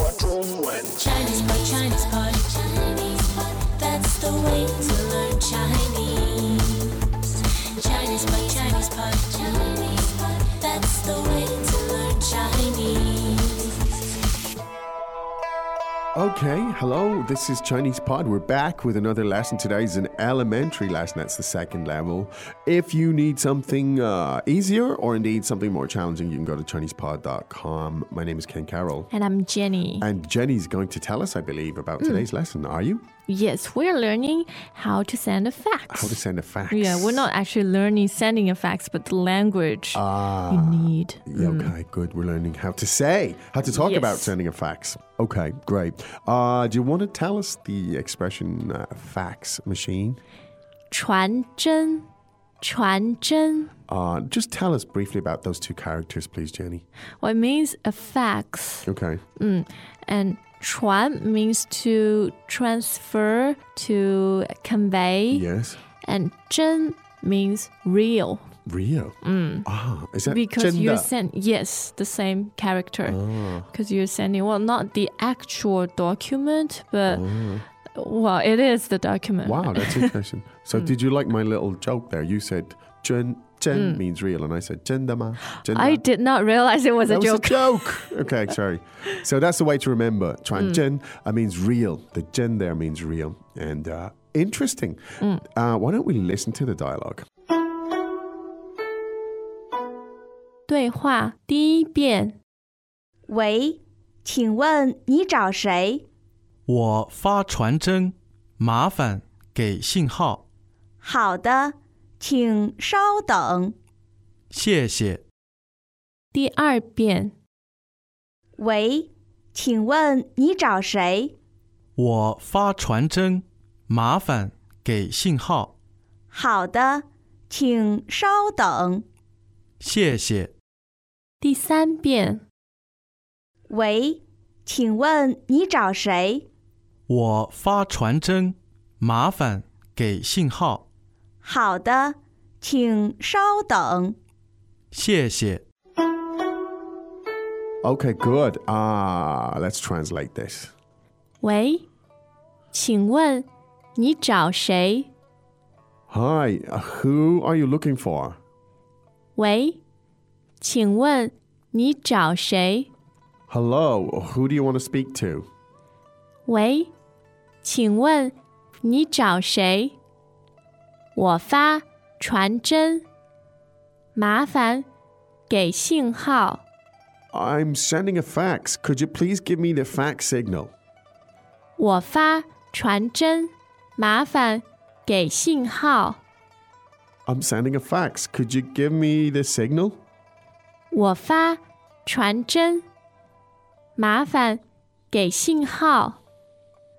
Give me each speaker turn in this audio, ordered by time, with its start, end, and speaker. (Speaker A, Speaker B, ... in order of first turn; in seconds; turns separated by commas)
Speaker A: 0.9-7.0, Speaker A: 7.7-13.7, Speaker B: 16.1-29.1, Speaker C: 29.1-30.1, Speaker B: 30.0-33.0, Speaker C: 32.0-32.3, Speaker C: 33.3-36.2, Speaker B: 35.9-37.3, Speaker C: 36.7-41.7, Speaker B: 39.9-50.2, Speaker C: 43.6-44.3, Speaker C: 50.9-52.1, Speaker C: 52.6-53.7, Speaker B: 53.9-56.8, Speaker C: 57.2-65.5, Speaker B: 58.9-59.2, Speaker B: 65.3-65.8, Speaker C: 66.0-68.5, Speaker B: 68.7-71.1, Speaker C: 69.2-69.7, Speaker C: 70.2-77.2, Speaker B: 73.0-73.7, Speaker B: 77.1-77.6, Speaker C: 77.9-80.1, Speaker B: 79.4-86.0, Speaker C: 83.7-84.0, Speaker C: 85.6-88.1, Speaker B: 87.0-97.2, Speaker C: 100.7-102.3, Speaker D: 103.3-106.0, Speaker E: 106.7-110.4, Speaker D: 111.0-113.7, Speaker E: 114.5-115.2, Speaker C: 116.3-117.3, Speaker D: 118.6-121.3, Speaker E: 122.0-125.7, Speaker D: 126.3-129.0, Speaker E: 129.8-130.5, Speaker C: 131.4-132.4, Speaker D: 133.7-136.5, Speaker E: 137.1-140.8, Speaker D: 141.4-144.2, Speaker E: 144.9-145.6, Speaker B: 147.8-150.7, Speaker C: 151.4-151.8, Speaker C: 152.7-155.1, Speaker B: 156.1-158.4, Speaker C: 159.3-159.8, Speaker C: 160.6-162.9, Speaker B: 163.5-165.5, Speaker C: 166.4-166.9, Speaker C: 167.6-169.9, Speaker C: 171.1-173.0, Speaker C: 174.1-174.8, Speaker C: 175.5-176.6, Speaker B: 177.3-180.7, Speaker C: 181.8-186.2, Speaker B: 187.2-190.0, Speaker C: 190.9-192.8, Speaker C: 193.9-196.2